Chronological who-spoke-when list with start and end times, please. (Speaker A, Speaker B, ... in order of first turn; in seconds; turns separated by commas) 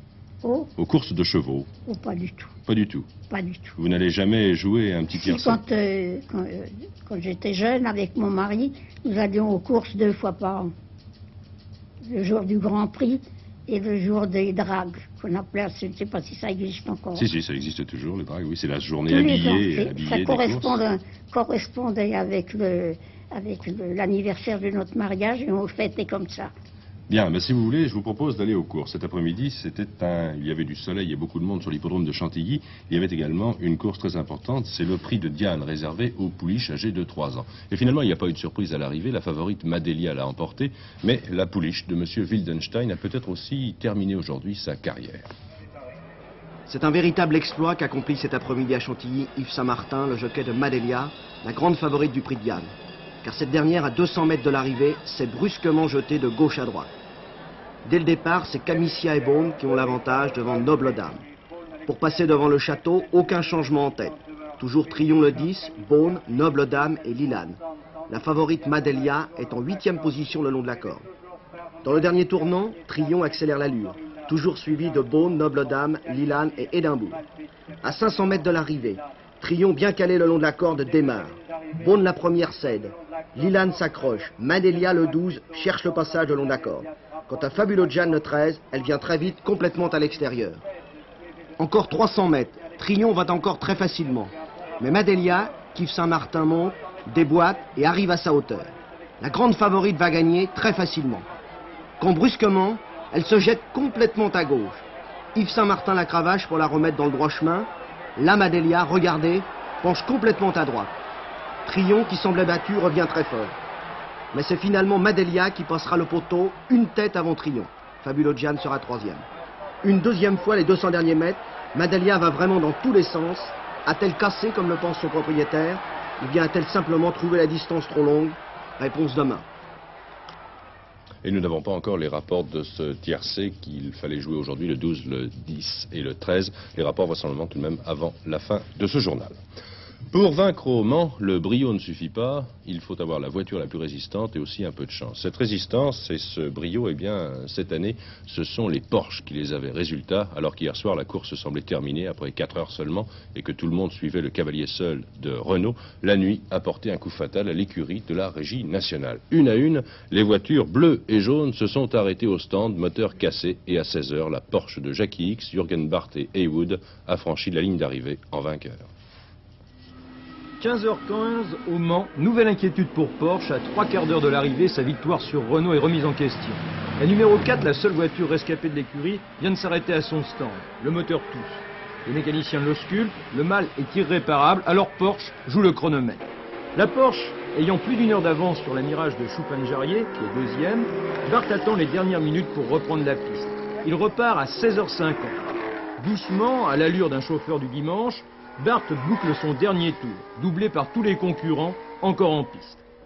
Speaker A: 0.4-0.7, Speaker B: 0.8-1.7, Speaker A: 1.9-2.5, Speaker B: 2.7-3.1, Speaker A: 3.3-3.7, Speaker B: 3.8-5.6, Speaker A: 5.1-10.7, Speaker A: 12.1-17.3, Speaker B: 17.2-20.8, Speaker A: 19.1-26.5, Speaker B: 27.1-45.3, Speaker C: 46.7-52.7, Speaker C: 53.2-56.9, Speaker C: 57.8-61.2, Speaker C: 61.9-71.1, Speaker C: 71.8-77.2, Speaker C: 77.8-90.6, Speaker C: 91.6-101.3, Speaker C: 102.0-104.8, Speaker C: 105.3-110.9, Speaker C: 111.7-113.5, Speaker C: 114.3-119.3, Speaker C: 119.8-129.4, Speaker B: 131.2-139.4, Speaker B: 140.1-168.9, Speaker D: 170.6-195.4, Speaker D: 196.0-202.8